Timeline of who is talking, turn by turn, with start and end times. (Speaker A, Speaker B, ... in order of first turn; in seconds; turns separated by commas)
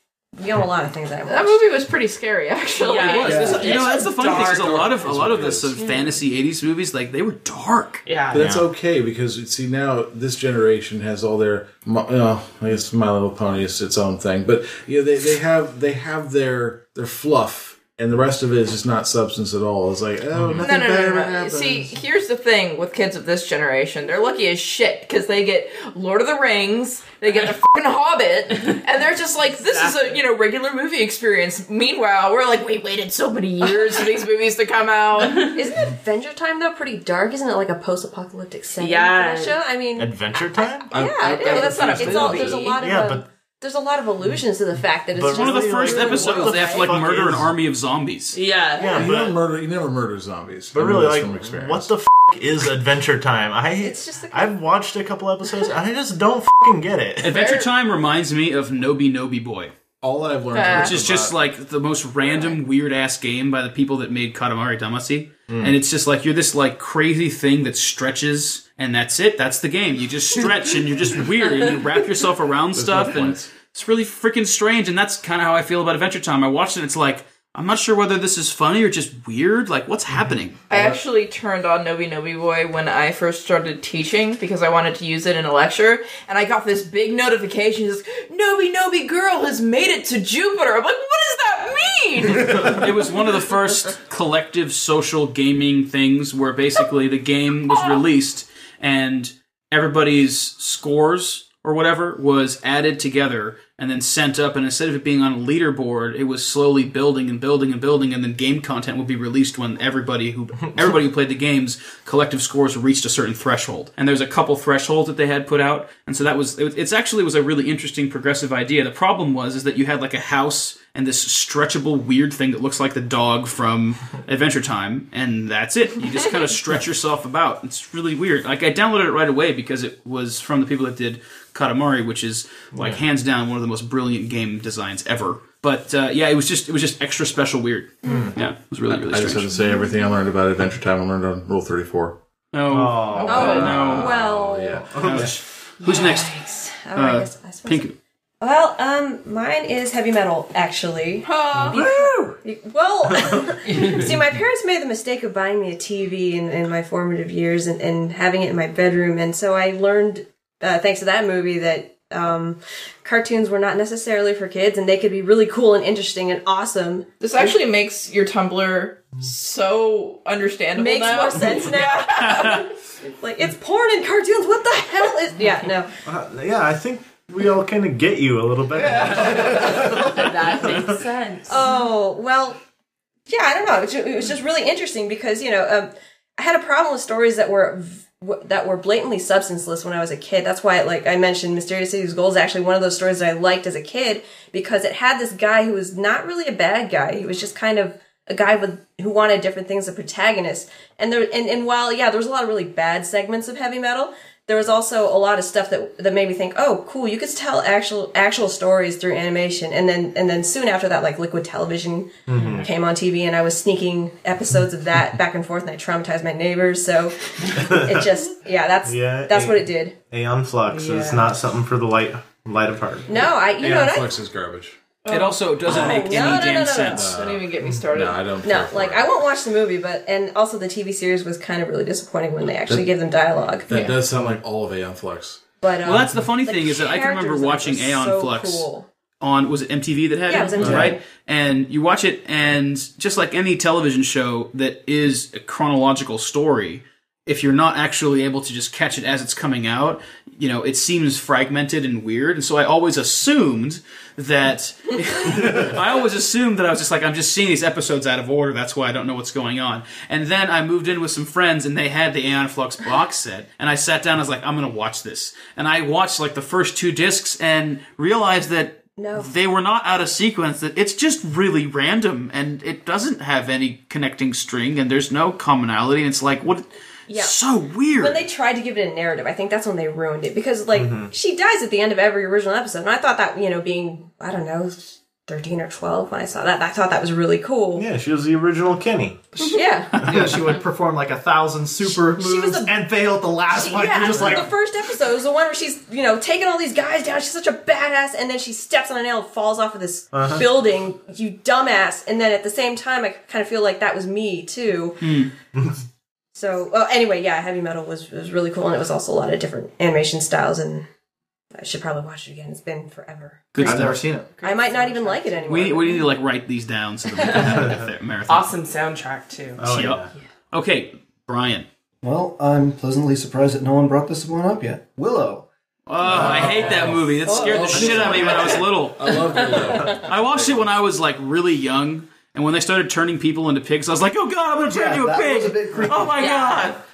Speaker A: 0.3-1.7, Speaker B: 1.2-4.1, Speaker C: 2.8-5.0, Speaker D: 3.1-8.1, Speaker E: 3.2-3.8, Speaker F: 4.2-5.8, Speaker C: 5.7-6.2, Speaker C: 8.1-8.5, Speaker F: 8.3-21.9, Speaker G: 8.4-8.6, Speaker G: 20.3-20.7, Speaker B: 20.6-35.6, Speaker C: 29.6-30.2, Speaker C: 35.2-35.6, Speaker A: 35.3-47.0, Speaker C: 38.8-39.6, Speaker G: 40.0-41.0, Speaker F: 40.9-42.7, Speaker B: 41.3-42.8, Speaker G: 42.8-43.3, Speaker G: 45.1-47.5, Speaker D: 45.3-48.4, Speaker C: 48.3-49.1, Speaker G: 48.8-49.4, Speaker F: 48.9-51.9, Speaker G: 50.7-57.4, Speaker A: 53.8-54.6, Speaker D: 57.2-59.7, Speaker B: 57.3-57.7, Speaker F: 60.0-61.5, Speaker B: 60.5-61.0, Speaker D: 60.7-80.6, Speaker A: 62.2-62.6, Speaker G: 65.5-65.8, Speaker F: 72.8-73.5, Speaker B: 80.7-92.9, Speaker F: 80.7-81.0, Speaker D: 92.6-139.5, Speaker G: 132.7-133.0, Speaker G: 138.0-138.4, Speaker F: 138.9-142.2, Speaker D: 142.5-144.1, Speaker G: 142.7-143.6, Speaker B: 143.2-143.8, Speaker A: 143.3-145.0, Speaker F: 143.4-145.3, Speaker G: 144.8-145.4, Speaker D: 145.0-146.3, Speaker A: 145.8-167.1, Speaker D: 146.9-147.9, Speaker B: 151.2-151.9, Speaker G: 151.5-152.4, Speaker G: 153.1-153.5, Speaker B: 167.2-172.7, Speaker A: 170.8-175.9, Speaker D: 172.2-172.6, Speaker G: 176.1-181.0, Speaker B: 178.8-180.3, Speaker C: 179.5-181.7, Speaker A: 181.5-182.6, Speaker A: 183.3-220.0, Speaker G: 212.3-212.7, Speaker G: 217.5-218.1, Speaker G: 218.8-223.2, Speaker C: 220.8-221.3, Speaker A: 223.1-224.1, Speaker F: 223.6-224.8, Speaker B: 225.1-226.4, Speaker D: 225.1-227.1, Speaker A: 225.7-227.1, Speaker F: 226.9-229.1, Speaker B: 227.0-228.2, Speaker A: 228.4-233.7, Speaker F: 233.7-235.4, Speaker G: 234.1-234.4, Speaker A: 235.6-238.9, Speaker D: 235.8-238.7, Speaker D: 239.2-278.2, Speaker A: 240.3-241.0, Speaker F: 240.6-240.9, Speaker G: 240.6-240.9, Speaker A: 269.0-269.3, Speaker A: 277.1-277.4, Speaker A: 278.0-287.9, Speaker G: 280.7-281.1, Speaker G: 287.8-289.3, Speaker H: 289.4-294.5, Speaker A: 289.4-290.1, Speaker G: 290.1-290.3, Speaker A: 292.1-292.8, Speaker A: 293.5-305.2, Speaker G: 294.1-294.4, Speaker G: 300.1-300.4, Speaker D: 305.0-305.3, Speaker A: 306.3-310.9, Speaker A: 311.5-316.1, Speaker D: 313.5-314.0, Speaker H: 313.6-314.4, Speaker C: 314.4-315.2, Speaker D: 315.5-318.6, Speaker C: 317.2-317.7, Speaker G: 317.4-317.9, Speaker C: 318.3-319.8, Speaker G: 319.6-320.1, Speaker D: 319.6-320.0, Speaker D: 320.5-321.7, Speaker E: 322.0-325.5, Speaker D: 325.9-329.3, Speaker F: 326.1-330.7, Speaker G: 326.2-326.7, Speaker E: 326.3-328.3, Speaker G: 327.7-328.6, Speaker G: 329.6-330.0, Speaker D: 329.8-336.8, Speaker E: 334.7-336.2, Speaker C: 336.1-336.8